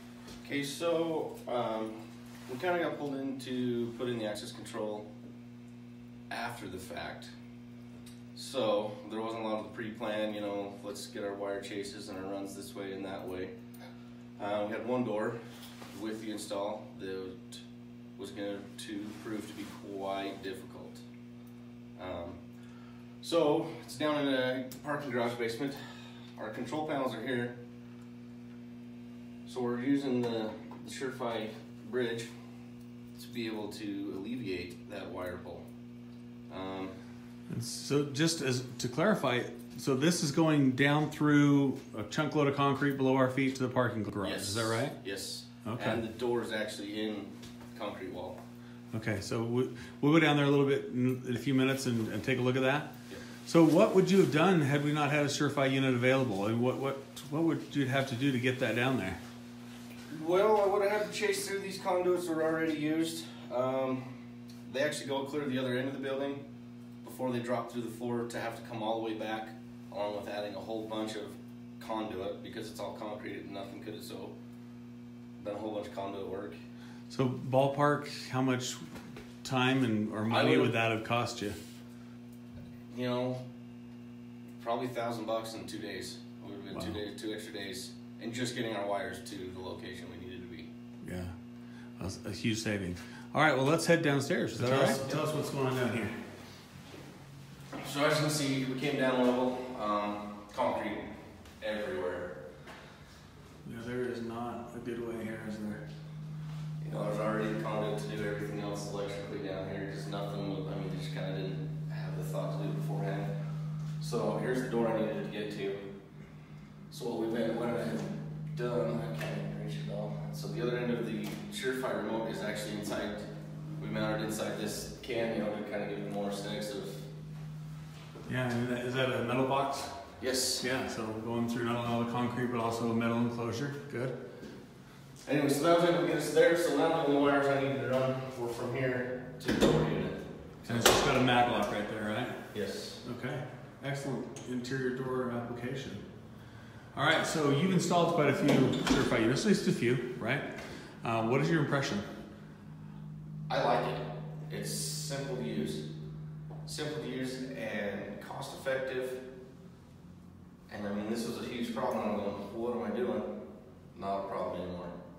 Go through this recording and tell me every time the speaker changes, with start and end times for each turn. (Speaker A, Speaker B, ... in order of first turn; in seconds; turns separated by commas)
Speaker A: 0.4-5.1, Speaker A: 6.3-7.3, Speaker A: 8.3-13.5, Speaker A: 14.4-15.4, Speaker A: 15.9-17.6, Speaker A: 18.2-21.0, Speaker A: 21.9-22.4, Speaker A: 23.2-25.8, Speaker A: 26.4-27.6, Speaker A: 29.4-32.3, Speaker A: 33.1-35.6, Speaker A: 36.5-37.0, Speaker B: 37.5-45.0, Speaker A: 44.2-48.4, Speaker B: 45.6-46.0, Speaker B: 48.9-52.9, Speaker B: 53.5-59.2, Speaker A: 60.1-66.4, Speaker A: 67.0-74.3, Speaker A: 75.4-76.6, Speaker B: 77.1-81.6, Speaker A: 80.3-80.8, Speaker A: 82.9-83.4, Speaker A: 84.6-90.7, Speaker B: 86.7-87.0, Speaker B: 91.0-91.3, Speaker B: 92.0-96.2, Speaker A: 94.6-95.4, Speaker A: 97.8-102.4, Speaker B: 103.6-105.8, Speaker A: 106.8-113.3, Speaker A: 114.0-115.8, Speaker A: 116.9-123.2, Speaker A: 123.8-127.1, Speaker B: 128.3-130.0, Speaker A: 130.2-130.7, Speaker B: 130.6-134.2, Speaker A: 135.2-141.0, Speaker B: 140.7-142.4, Speaker A: 142.5-143.0, Speaker B: 143.0-146.0, Speaker B: 146.9-152.0, Speaker A: 153.5-155.9, Speaker A: 156.6-159.2, Speaker A: 160.7-163.3, Speaker A: 163.9-164.9